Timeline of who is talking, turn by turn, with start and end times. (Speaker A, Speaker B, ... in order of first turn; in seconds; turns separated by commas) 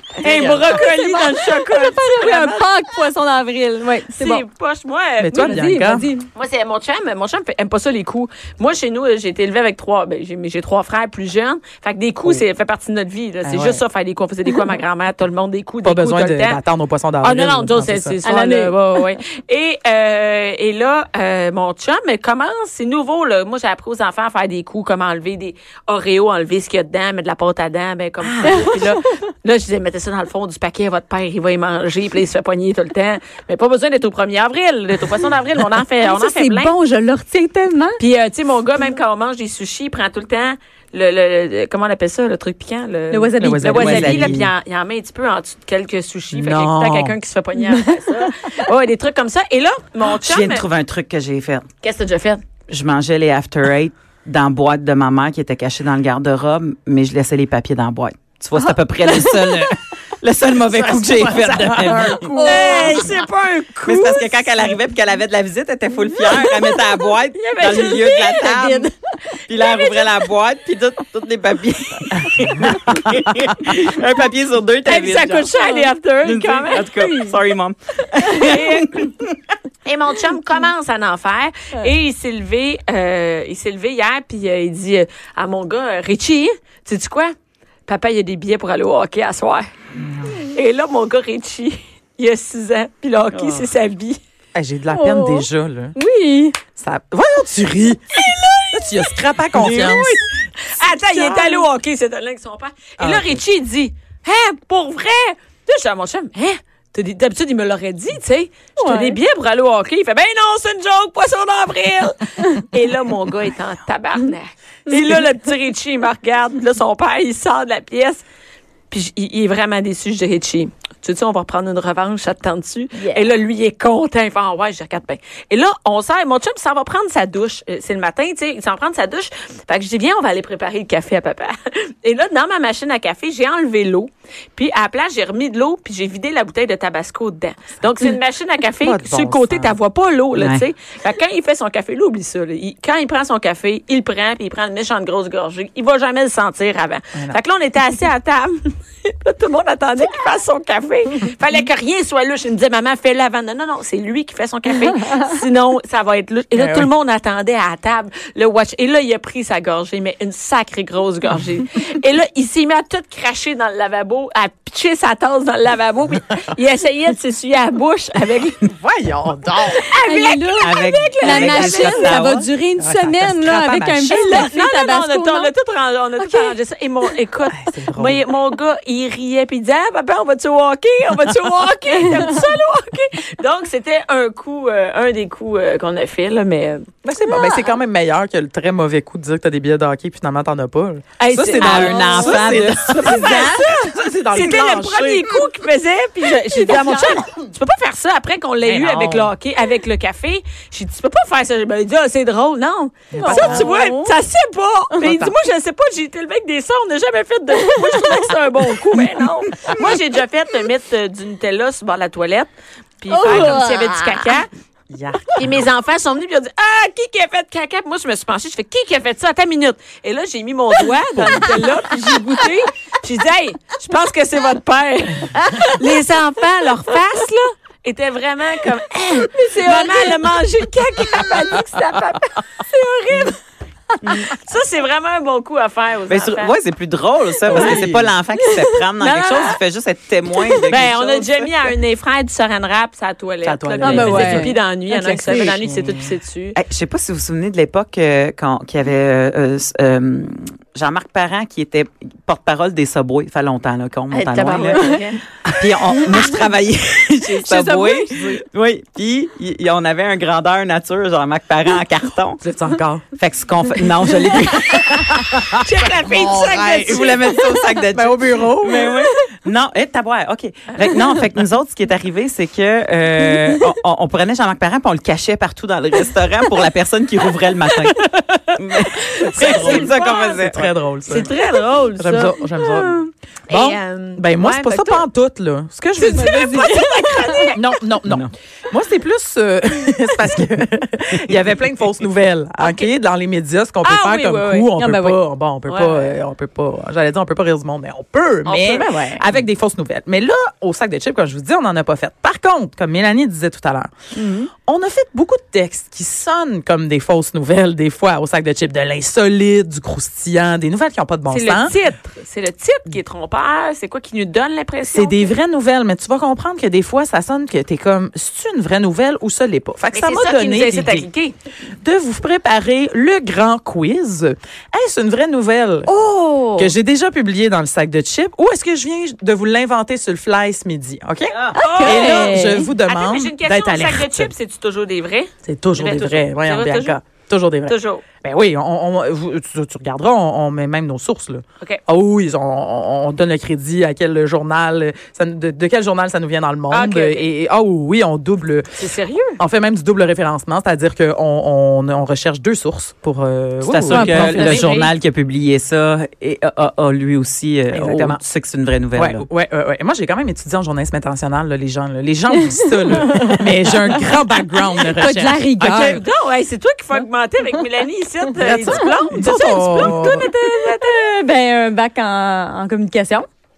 Speaker A: 0.2-0.8, Speaker B: 0.2-2.7, Speaker C: 0.8-4.4, Speaker B: 4.1-5.6, Speaker A: 5.2-6.1, Speaker C: 5.3-6.3, Speaker B: 6.3-16.6, Speaker A: 13.4-13.8, Speaker A: 15.8-18.2, Speaker B: 17.2-36.7, Speaker C: 18.2-18.8, Speaker C: 28.4-28.9, Speaker C: 36.0-38.0, Speaker B: 38.0-50.6, Speaker C: 43.1-44.3, Speaker A: 43.4-44.5, Speaker D: 43.8-44.4, Speaker A: 46.3-47.1, Speaker D: 50.1-51.6, Speaker B: 51.8-52.4, Speaker D: 52.7-62.3, Speaker C: 58.6-59.7, Speaker A: 60.7-62.9, Speaker C: 62.2-63.2, Speaker B: 62.4-64.7, Speaker D: 63.9-68.9, Speaker C: 67.4-68.9, Speaker D: 69.5-75.5, Speaker C: 69.6-70.0, Speaker B: 74.8-76.9, Speaker C: 75.6-75.9, Speaker D: 76.2-79.4, Speaker C: 76.8-77.4, Speaker B: 78.4-79.1, Speaker B: 79.8-87.3, Speaker B: 87.8-89.7, Speaker B: 90.3-94.2, Speaker D: 93.3-93.7, Speaker A: 94.5-95.9, Speaker C: 94.9-96.6, Speaker A: 96.7-98.1, Speaker B: 98.2-99.2, Speaker A: 98.7-100.2, Speaker C: 99.6-100.1, Speaker B: 100.6-118.2, Speaker A: 103.0-103.4, Speaker C: 108.8-109.2, Speaker B: 118.9-168.6, Speaker C: 122.9-123.3, Speaker D: 138.8-139.8, Speaker D: 140.3-140.6, Speaker A: 156.5-156.9, Speaker A: 168.7-169.9, Speaker B: 169.9-172.2, Speaker C: 170.0-175.5, Speaker D: 170.6-172.5, Speaker A: 172.8-174.5, Speaker B: 174.2-186.9, Speaker C: 176.2-176.6, Speaker A: 177.5-178.2, Speaker A: 187.0-195.3, Speaker C: 187.2-187.8, Speaker B: 191.2-193.8, Speaker D: 191.6-193.0, Speaker C: 191.8-192.5, Speaker B: 194.3-214.5, Speaker C: 196.5-197.2, Speaker A: 198.6-199.3, Speaker A: 203.1-203.7, Speaker C: 203.1-204.1, Speaker A: 205.0-205.3, Speaker C: 207.6-208.0, Speaker C: 213.1-214.1, Speaker A: 214.9-215.5, Speaker B: 215.4-233.4, Speaker C: 229.4-230.2, Speaker B: 234.1-236.6, Speaker D: 236.1-241.4, Speaker B: 237.5-237.9, Speaker A: 237.5-238.1, Speaker B: 238.5-239.6, Speaker B: 240.7-246.6, Speaker A: 243.4-244.2, Speaker D: 243.5-244.4, Speaker C: 243.8-245.6, Speaker A: 245.6-246.0, Speaker D: 246.5-254.9, Speaker B: 254.1-255.2, Speaker D: 255.5-262.4, Speaker C: 257.3-258.4, Speaker A: 262.4-263.0, Speaker D: 263.1-265.0, Speaker A: 264.7-269.0, Speaker B: 265.6-267.3, Speaker D: 266.9-278.0, Speaker D: 278.6-280.7, Speaker B: 278.9-280.5, Speaker A: 279.3-281.3, Speaker B: 281.1-282.4, Speaker A: 282.0-286.6, Speaker B: 283.5-285.1, Speaker B: 286.0-287.7, Speaker C: 286.1-287.6, Speaker A: 287.6-303.9, Speaker D: 288.1-288.3, Speaker B: 292.6-292.9, Speaker B: 293.8-294.7, Speaker C: 294.7-295.2, Speaker B: 295.6-296.1, Speaker B: 298.4-299.2, Speaker C: 304.1-304.5, Speaker A: 304.6-311.7, Speaker B: 311.3-315.3, Speaker A: 314.9-321.1, Speaker B: 319.9-321.3, Speaker A: 321.8-325.9, Speaker C: 325.9-326.7, Speaker A: 326.5-334.3, Speaker D: 331.3-331.6, Speaker C: 331.5-332.8, Speaker B: 331.6-337.0, Speaker A: 335.4-348.7, Speaker B: 337.6-338.0, Speaker B: 346.7-347.3, Speaker B: 348.8-349.4, Speaker A: 349.4-354.8, Speaker D: 353.6-359.2, Speaker C: 353.9-354.5, Speaker B: 354.3-354.9, Speaker A: 357.7-358.2, Speaker A: 358.9-366.0, Speaker C: 362.3-365.9, Speaker B: 365.7-371.1, Speaker A: 368.4-370.3, Speaker C: 368.8-373.3